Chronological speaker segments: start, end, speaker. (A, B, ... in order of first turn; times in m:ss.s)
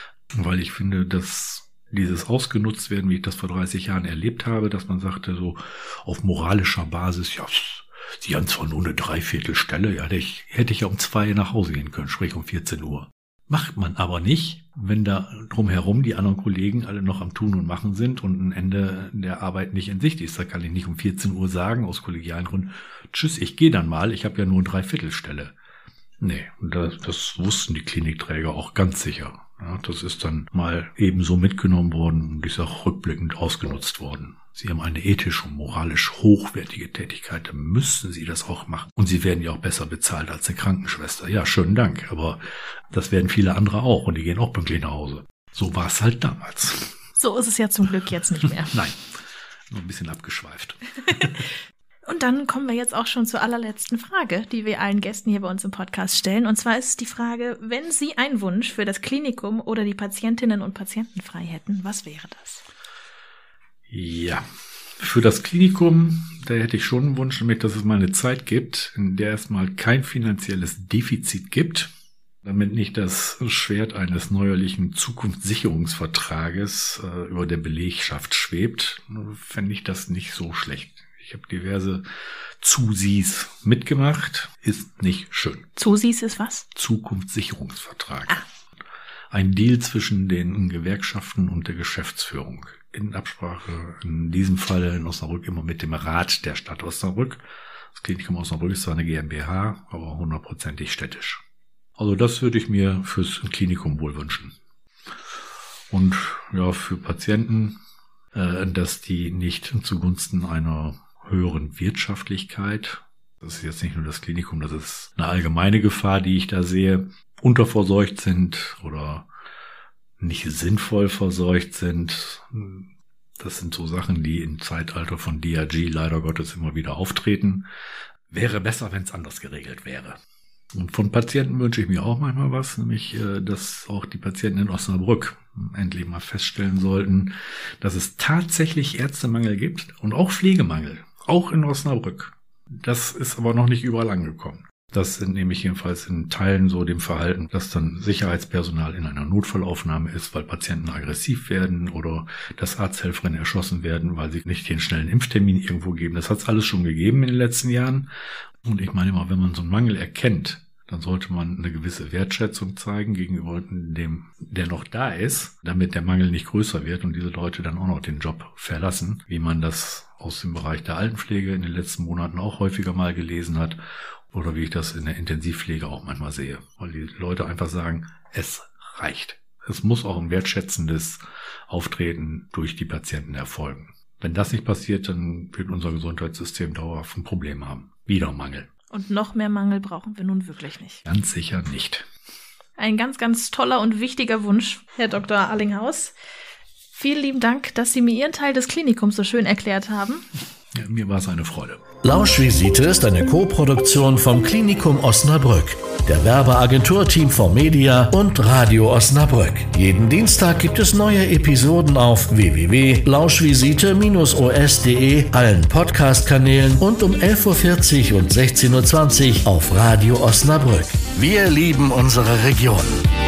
0:00.3-0:25.6 A
0:26.2-0:47.0 A
0:47.2-0:48.8 B
0:48.6-0:49.0 A
0:49.7-0:51.3 A
0:52.1-1:02.6 B
1:03.9-1:04.4 A
1:05.0-1:11.9 A
1:12.4-1:22.0 A
1:22.6-1:25.7 A
1:25.8-1:26.7 B
1:26.8-1:28.4 A
1:29.3-1:41.4 A
1:42.0-1:44.6 A
1:45.9-1:47.8 A
1:48.3-1:59.3 A
2:00.2-2:07.7 A
2:08.3-2:10.2 A
2:10.7-2:38.1 A
2:38.6-2:53.8 A
2:54.3-3:08.7 A
3:08.9-3:11.0 B
3:11.1-3:12.1 A
3:12.8-3:16.2 B
3:16.9-3:20.3 B
3:20.7-3:21.9 A
3:22.0-3:43.0 C